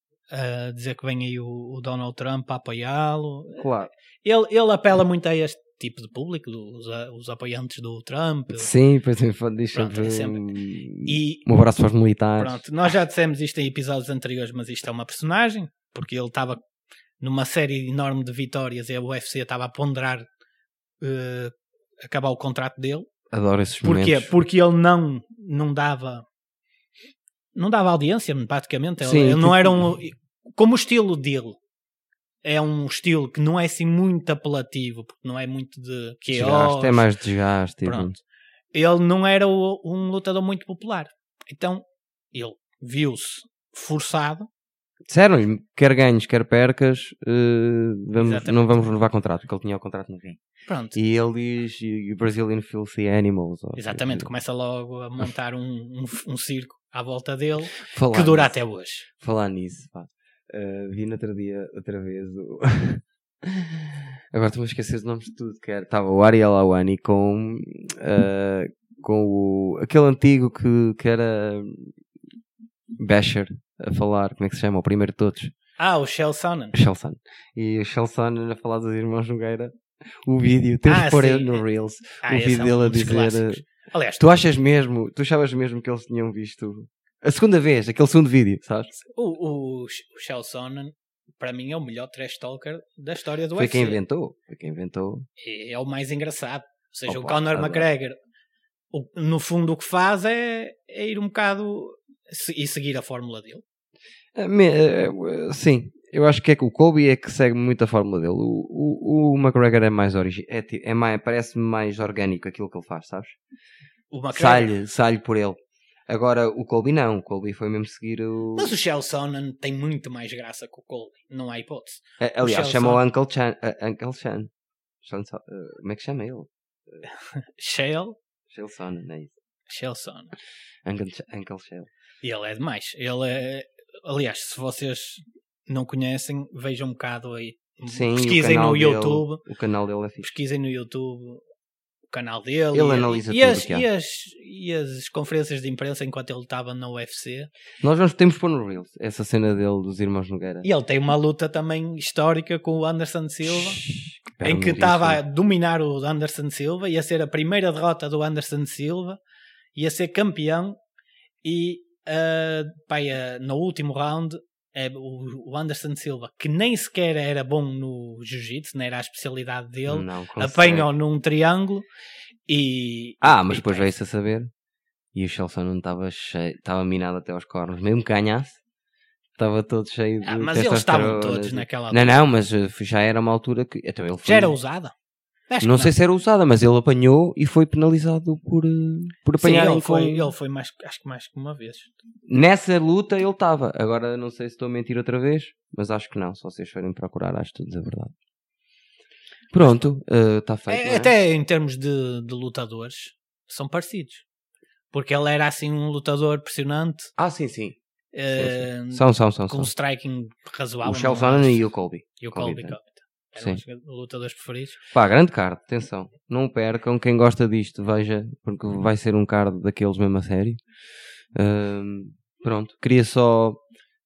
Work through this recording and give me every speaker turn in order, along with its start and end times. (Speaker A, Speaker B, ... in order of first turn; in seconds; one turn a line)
Speaker A: 0.3-3.7
Speaker B: 3.6-3.9
Speaker A: 4.2-8.7
Speaker B: 8.5-12.6
Speaker A: 9.7-10.4
Speaker A: 11.0-11.4
Speaker A: 12.4-16.6
Speaker A: 17.2-20.3
Speaker A: 21.0-23.1
Speaker B: 23.3-24.3
Speaker A: 23.8-26.2
Speaker A: 27.5-31.6
Speaker B: 29.0-29.9
Speaker A: 32.4-37.1
Speaker B: 36.3-38.1
Speaker A: 37.8-38.2
Speaker A: 38.7-44.5
Speaker B: 45.1-50.4
Speaker A: 48.1-48.9
Speaker A: 50.7-51.0
Speaker B: 50.9-54.3
Speaker A: 53.8-59.1
Speaker B: 57.7-58.5
Speaker B: 59.1-72.0
Speaker B: 73.0-75.5
Speaker A: 75.8-76.7
Speaker B: 76.7-83.6
Speaker A: 80.8-81.6
Speaker A: 82.2-84.2
Speaker B: 84.2-88.9
Speaker A: 88.9-94.0
Speaker B: 93.5-95.3
Speaker A: 95.4-98.2
Speaker B: 97.1-97.9
Speaker A: 98.9-103.6
Speaker B: 104.3-113.3
Speaker A: 114.1-114.7
Speaker B: 114.3-118.7
Speaker A: 118.5-123.0
Speaker B: 122.2-124.5
Speaker B: 125.0-127.0
Speaker A: 127.6-128.2
Speaker B: 128.5-129.3
Speaker A: 129.7-130.3
Speaker B: 130.8-131.9
Speaker A: 132.2-139.4
Speaker B: 137.9-140.3
Speaker A: 140.2-141.4
Speaker A: 142.1-147.5
Speaker B: 142.7-143.9
Speaker B: 147.8-150.7
Speaker A: 150.6-153.8
Speaker B: 153.4-155.2
Speaker A: 154.4-159.2
Speaker A: 159.7-160.8
Speaker A: 161.4-171.8
Speaker B: 169.9-170.9
Speaker A: 172.5-173.9
Speaker B: 173.2-174.5
Speaker B: 175.1-178.6
Speaker B: 179.4-184.6
Speaker A: 180.2-182.2
Speaker A: 184.2-184.9
Speaker A: 185.5-185.9
Speaker B: 185.6-190.3
Speaker A: 189.4-191.9
Speaker B: 192.3-198.1
Speaker B: 199.5-201.1
Speaker A: 200.7-204.2
Speaker A: 204.9-207.1
Speaker B: 207.2-207.8
Speaker A: 208.1-211.6
Speaker B: 208.3-209.7
Speaker B: 210.8-212.8
Speaker A: 212.2-214.8
Speaker B: 213.3-213.6
Speaker B: 214.9-220.6
Speaker B: 221.3-223.6